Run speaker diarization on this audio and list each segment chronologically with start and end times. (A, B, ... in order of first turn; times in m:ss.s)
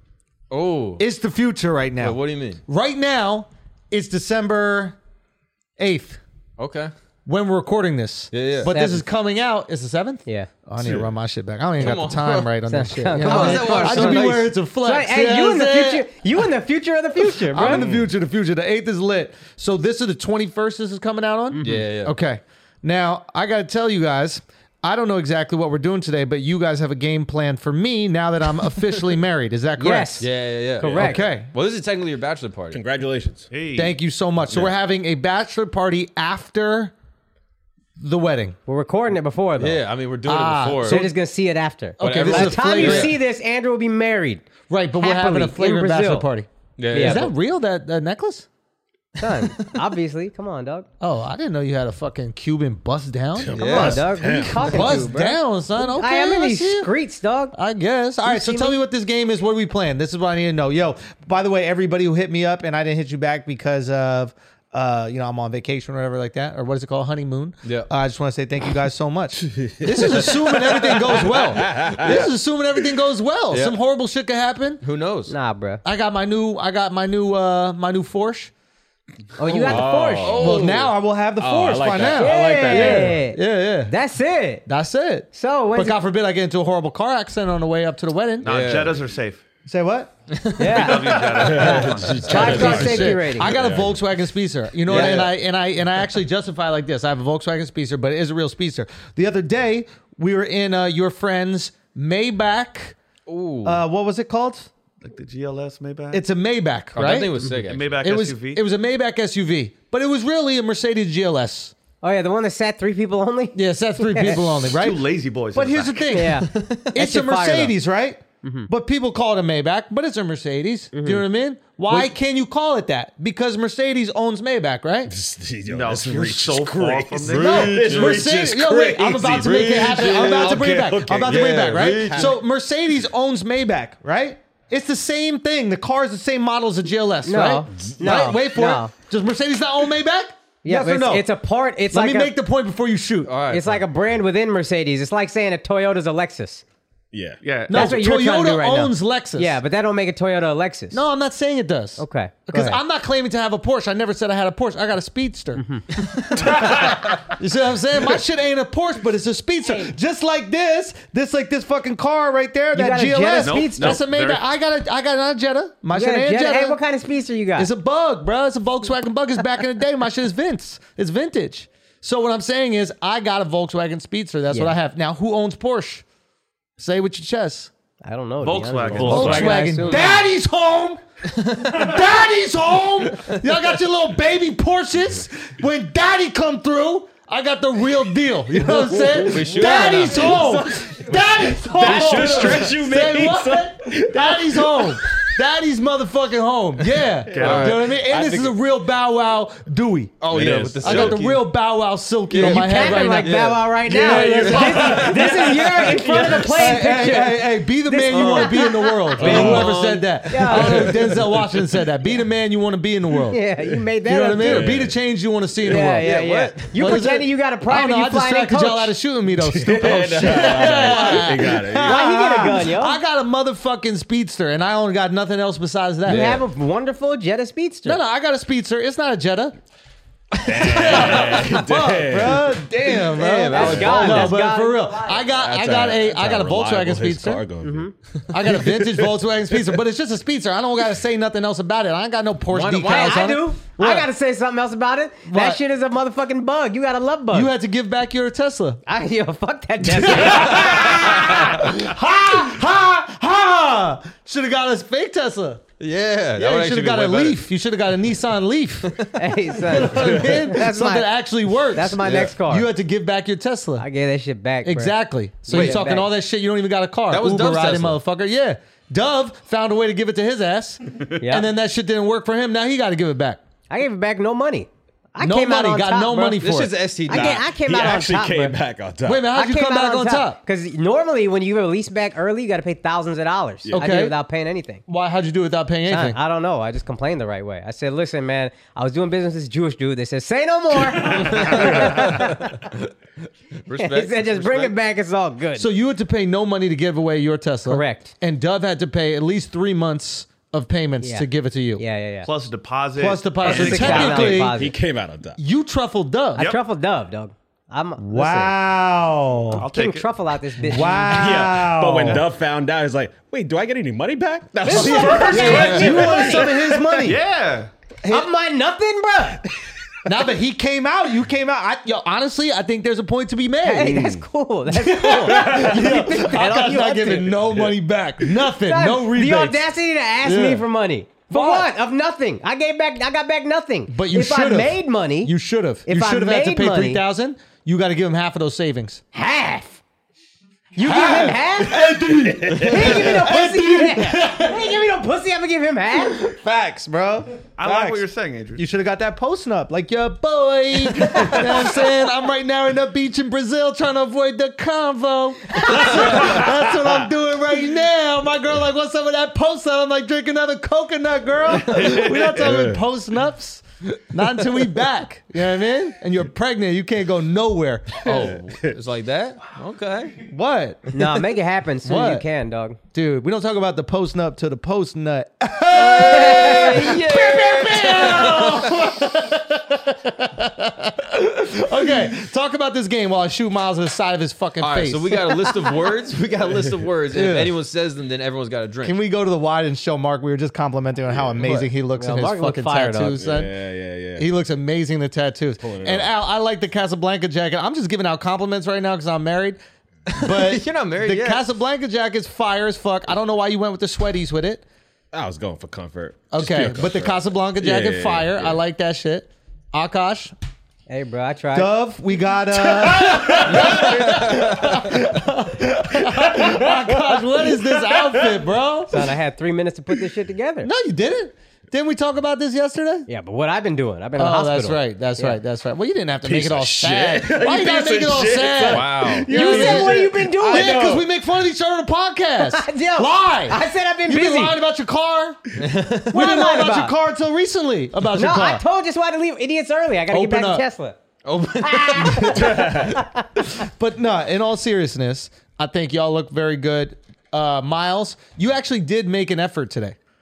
0:00.5-0:01.0 A
0:01.0-0:05.0 B
0:02.0-0:02.6 A
0:05.8-0:06.2 B
0:06.6-0:06.9 A
0:07.2-0:16.1 B
0:08.3-0:08.7 A
0:08.6-0:09.0 C
0:10.8-0:11.1 D
0:11.8-0:12.6 A
0:12.7-0:17.9 C
0:13.1-0:14.5 A
0:17.2-0:30.2 B
0:17.6-0:18.1 D
0:21.6-0:22.2 A
0:29.8-0:30.3 C
0:30.2-0:32.8 A
0:30.8-0:31.2 C
0:30.9-0:31.5 B
0:32.7-0:33.5 D
0:33.5-0:33.9 E
0:33.7-0:36.9 B
0:34.5-0:34.7 D
0:38.0-0:38.6 B
0:38.6-0:39.8 C
0:39.6-0:41.1 A
0:40.2-0:41.1 B
0:40.8-0:44.5 C
0:42.0-0:43.2 B
0:42.0-0:43.1 A
0:44.7-0:48.5 B
0:45.0-0:46.3 C
0:46.8-0:47.3 A
0:46.9-0:47.3 C
0:49.2-0:50.9 C
0:51.0-0:56.9 B
0:53.4-0:55.0 D
0:53.5-0:54.1 A
0:53.6-0:57.5 C
0:57.5-1:14.8 B
0:58.2-0:58.8 C
1:07.6-1:07.9 A
1:09.6-1:12.2 D
1:13.5-1:13.8 A
1:14.8-1:15.3 A
1:15.3-1:15.8 C
1:15.8-1:18.5 B
1:19.4-1:20.4 C
1:19.5-1:23.9 B
1:19.5-1:20.6 D
1:19.6-1:20.9 A
1:21.4-1:23.2 D
1:22.0-1:24.6 C
1:24.6-1:28.6 B
1:25.3-1:26.0 C
1:28.4-1:29.4 E
1:28.4-1:29.0 A
1:29.6-1:30.1 B
1:30.3-1:31.4 A
1:30.6-1:33.5 C
1:30.7-1:32.5 E
1:31.3-1:34.0 D
1:32.2-1:43.0 B
1:32.3-1:32.7 A
1:34.9-1:35.3 A
1:34.9-1:35.2 D
1:43.3-1:43.8 A
1:43.6-1:44.7 B
1:45.0-1:46.2 E
1:46.1-1:47.5 B
1:46.9-1:48.1 A
1:47.4-1:48.6 E
1:48.0-1:51.7 B
1:52.0-1:54.6 C
1:53.5-2:05.1 B
1:54.7-1:56.1 E
1:56.1-1:57.7 C
1:56.5-1:56.9 A
2:00.9-2:01.2 C
2:05.1-2:12.4 D
2:05.6-2:08.3 E
2:07.3-2:21.3 B
2:09.2-2:12.4 A
2:10.2-2:11.0 E
2:17.2-2:18.9 C
2:20.6-2:22.3 C
2:21.9-2:23.4 B
2:23.2-2:23.8 A
2:23.5-2:26.6 C
2:27.1-2:27.4 D
2:27.4-2:28.0 E
2:27.7-2:29.6 B
2:27.7-2:31.0 C
2:30.9-2:46.8 B
2:32.0-2:32.8 C
2:36.3-2:37.1 E
2:39.6-2:39.9 C
2:42.7-2:44.0 C
2:43.4-2:44.4 E
2:45.9-2:47.7 C
2:47.6-2:56.0 B
2:54.5-2:54.7 C
2:56.8-2:57.7 B
2:58.0-3:00.2 C
2:58.4-2:59.7 E
2:59.0-3:01.0 B
3:01.4-3:01.9 A
3:01.6-3:25.4 B
3:08.7-3:15.3 D
3:09.2-3:10.6 A
3:11.8-3:12.8 A
3:11.9-3:12.7 E
3:17.3-3:17.7 E
3:17.3-3:18.6 D
3:17.3-3:18.0 A
3:20.2-3:21.4 A
3:20.3-3:21.2 D
3:22.3-3:25.4 A
3:22.4-3:31.0 C
3:24.0-3:25.6 E
3:26.0-3:26.8 D
3:26.3-3:33.4 B
3:29.2-3:29.9 D
3:29.2-3:31.0 A
3:33.3-3:34.8 C
3:34.0-3:36.2 B
3:34.4-3:35.0 D
3:35.6-3:39.0 C
3:36.0-3:36.7 A
3:36.7-3:46.4 B
3:39.3-3:42.0 D
3:40.6-3:41.2 C
3:41.8-3:43.0 C
3:46.0-3:48.0 C
3:46.1-3:46.4 A
3:47.8-3:49.5 B
3:50.3-3:51.6 A
3:50.4-3:53.0 D
3:50.6-3:57.4 B
3:53.0-3:54.4 A
3:53.5-3:55.3 C
3:53.6-3:54.1 D
3:55.2-3:57.9 D
3:57.6-3:57.9 C
3:58.3-4:04.1 B
3:58.4-3:59.1 D
4:02.5-4:03.2 A
4:02.8-4:07.5 C
4:05.3-4:05.6 B
4:07.3-4:08.8 B
4:08.8-4:11.0 C
4:09.8-4:15.6 B
4:10.5-4:11.6 A
4:15.8-4:17.4 A
4:16.4-4:23.8 B
4:19.1-4:21.1 C
4:20.0-4:20.3 D
4:21.7-4:22.7 C
4:23.8-4:26.1 C
4:24.6-4:33.4 B
4:25.5-4:25.9 A
4:27.1-4:28.0 A
4:31.2-4:31.5 C
4:33.7-4:36.4 C
4:35.2-4:36.7 B
4:36.4-4:37.5 A
4:37.1-4:38.5 C
4:37.1-4:39.2 D
4:39.0-4:40.4 B
4:39.3-4:44.8 C
4:43.7-4:44.2 B
4:44.9-4:46.2 B
4:45.9-4:52.7 C
4:51.1-4:52.5 A
4:53.6-4:54.7 A
4:53.8-4:55.7 C
4:55.5-5:01.8 B
4:57.6-4:58.1 C
5:01.0-5:01.2 C
5:01.8-5:02.3 C
5:02.2-5:04.3 E
5:03.0-5:04.6 B
5:03.4-5:04.7 C
5:03.5-5:05.4 D
5:05.4-5:06.5 B
5:06.4-5:08.5 C
5:08.0-5:09.6 B
5:08.3-5:10.1 E
5:09.5-5:11.2 C
5:10.6-5:12.2 B
5:10.7-5:12.2 E
5:11.0-5:16.5 D
5:14.6-5:16.9 C
5:14.6-5:17.2 B
5:15.4-5:17.7 E
5:15.4-5:16.0 A
5:18.0-5:18.3 B
5:18.0-5:19.4 C
5:20.0-5:24.1 B
5:23.6-5:27.4 C
5:23.8-5:24.2 D
5:24.7-5:29.7 B
5:25.4-5:25.7 D
5:28.6-5:35.3 C
5:30.2-5:30.6 B
5:31.3-5:31.7 B
5:33.9-5:39.0 B
5:35.8-5:37.0 C
5:39.1-5:39.8 C
5:40.7-5:46.2 C
5:40.8-5:44.6 B
5:41.8-5:42.8 E
5:46.4-6:08.2 B
5:47.5-5:48.6 E
5:51.1-5:51.4 C
6:01.9-6:02.1 E
6:02.4-6:02.8 D
6:08.0-6:10.2 A
6:10.2-6:11.2 B
6:10.9-6:12.8 C
6:11.8-6:12.2 B
6:12.9-6:25.5 B
6:15.7-6:18.9 A
6:16.0-6:17.0 C
6:24.6-6:29.0 A
6:27.1-6:27.5 B
6:28.8-6:33.5 B
6:31.1-6:31.4 D
6:31.4-6:31.7 A
6:31.9-6:33.2 C
6:33.2-6:34.3 D
6:34.2-6:39.6 B
6:35.6-6:36.1 D
6:40.1-6:41.4 A
6:40.1-6:44.6 B
6:45.1-6:48.6 D
6:46.3-6:50.3 B
6:50.9-6:51.7 C
6:51.5-6:59.1 B
6:53.7-6:54.1 A
6:57.9-6:58.4 D
6:58.9-7:00.7 C
7:00.6-7:03.1 B
7:03.1-7:05.4 C
7:04.2-7:15.4 B
7:06.2-7:11.0 D
7:08.6-7:09.3 A
7:09.3-7:11.0 C
7:12.4-7:14.6 C
7:15.6-7:16.4 A
7:16.0-7:18.6 B
7:16.1-7:16.9 C
7:18.1-7:21.0 C
7:20.1-7:20.6 B
7:21.2-7:22.6 A
7:21.6-7:23.2 C
7:22.2-7:22.9 B
7:23.5-7:30.0 B